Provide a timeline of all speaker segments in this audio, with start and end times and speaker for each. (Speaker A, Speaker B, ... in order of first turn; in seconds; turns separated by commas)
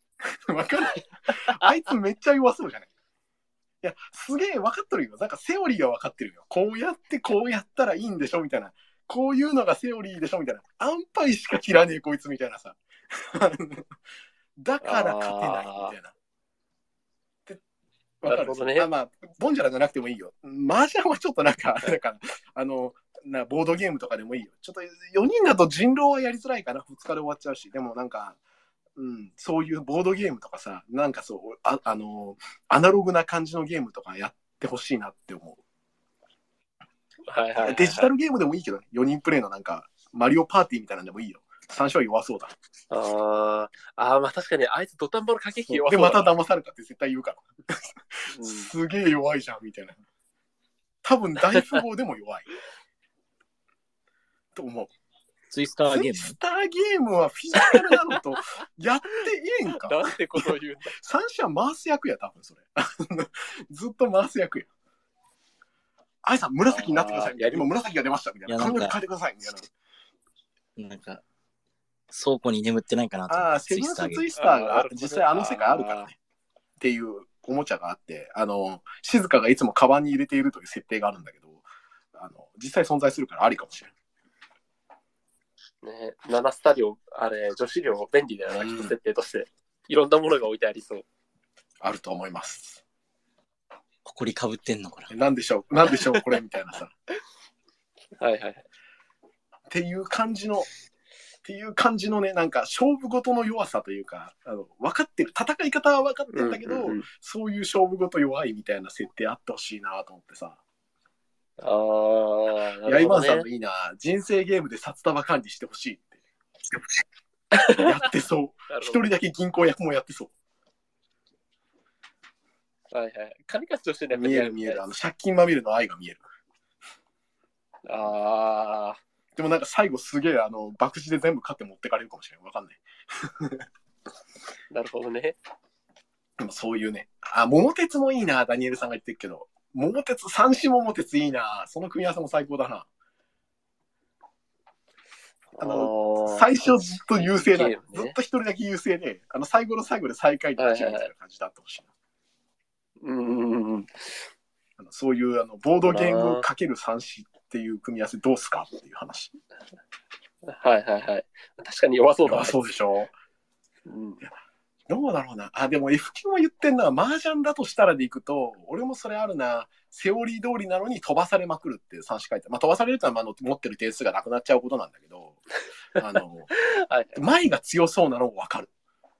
Speaker A: 0.5-2.9, Speaker A: 3.8-13.8, Speaker A: 14.6-16.1, Speaker B: 14.8-15.9, Speaker A: 18.2-28.4, Speaker B: 18.2-18.9, Speaker A: 29.0-35.6, Speaker B: 37.3-38.1, Speaker A: 37.6-42.5, Speaker B: 42.9-46.3, Speaker A: 45.7-50.0, Speaker B: 48.3-48.7, Speaker A: 51.0-52.5, Speaker A: 54.5-54.9, Speaker C: 55.5-56.4, Speaker A: 55.9-64.7, Speaker B: 59.7-61.0, Speaker A: 66.2-69.7, Speaker B: 66.7-67.7, Speaker C: 68.5-69.0, Speaker C: 70.8-71.2, Speaker C: 72.1-74.2, Speaker A: 73.3-76.1, Speaker B: 74.4-76.1, Speaker A: 76.8-81.6, Speaker A: 82.1-83.9, Speaker B: 85.8-91.0, Speaker A: 88.5-88.9, Speaker A: 91.8-92.8, Speaker C: 94.0-95.1, Speaker A: 95.1-96.9, Speaker B: 95.9-96.2, Speaker B: 98.2-98.6, Speaker A: 99.7-100.7, Speaker A: 101.4-110.6, Speaker B: 106.3-107.0, Speaker B: 111.6-113.5, Speaker A: 112.8-116.1, Speaker B: 117.5-118.0, Speaker A: 117.5-120.3, Speaker B: 118.7-119.0, Speaker B: 122.9-124.8, Speaker A: 124.1-126.2, Speaker B: 127.8-129.0, Speaker A: 129.3-133.6, Speaker B: 134.7-135.4, Speaker A: 136.4-142.9, Speaker B: 145.6-148.2, Speaker A: 145.6-151.9, Speaker B: 150.6-151.1, Speaker B: 153.0-154.1, Speaker A: 154.8-159.3, Speaker B: 155.8-156.4, Speaker B: 160.5-162.6, Speaker A: 162.2-163.1, Speaker B: 163.8-164.2, Speaker A: 164.9-175.4, Speaker A: 175.9-176.5, Speaker B: 176.6-177.2, Speaker A: 177.1-178.7